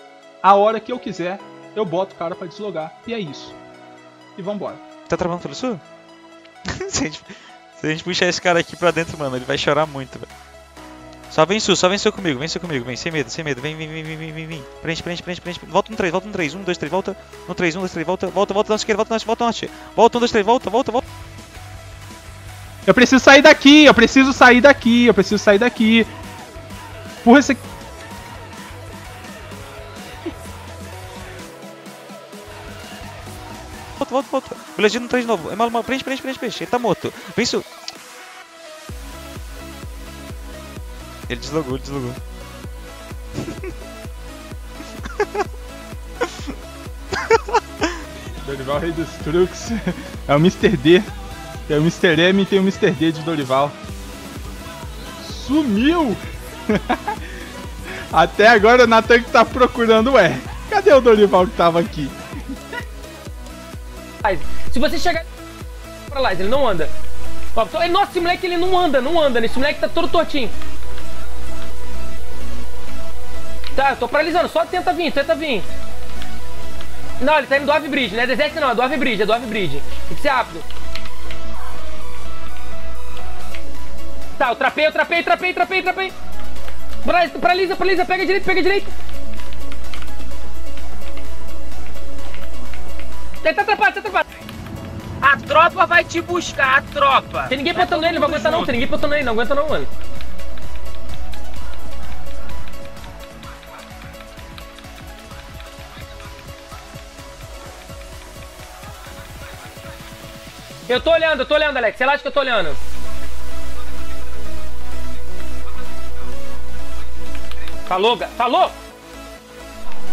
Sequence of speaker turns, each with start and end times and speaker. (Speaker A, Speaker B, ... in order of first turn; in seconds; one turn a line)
Speaker A: 0.4-3.6
Speaker A: 4.4-4.8
Speaker B: 5.1-5.8
Speaker B: 6.8-10.3
Speaker B: 11.3-21.0
Speaker A: 22.9-26.1
Speaker A: 27.2-27.6
Speaker B: 34.0-37.6
Speaker B: 41.3-42.2
Speaker A: 48.4-51.1
Speaker A: 51.7-53.8
Speaker A: 55.2-57.3
Speaker A: 58.1-62.5
Speaker C: 64.2-65.2
Speaker C: 66.1-66.9
Speaker C: 67.5-70.5
Speaker C: 73.8-75.7
Speaker C: 77.2-80.7
Speaker C: 84.4-86.1
Speaker C: 87.0-88.9
Speaker C: 93.4-94.2
Speaker D: 95.2-98.8
Speaker C: 97.5-99.9
Speaker C: 110.9-112.8
Speaker C: 117.9-118.8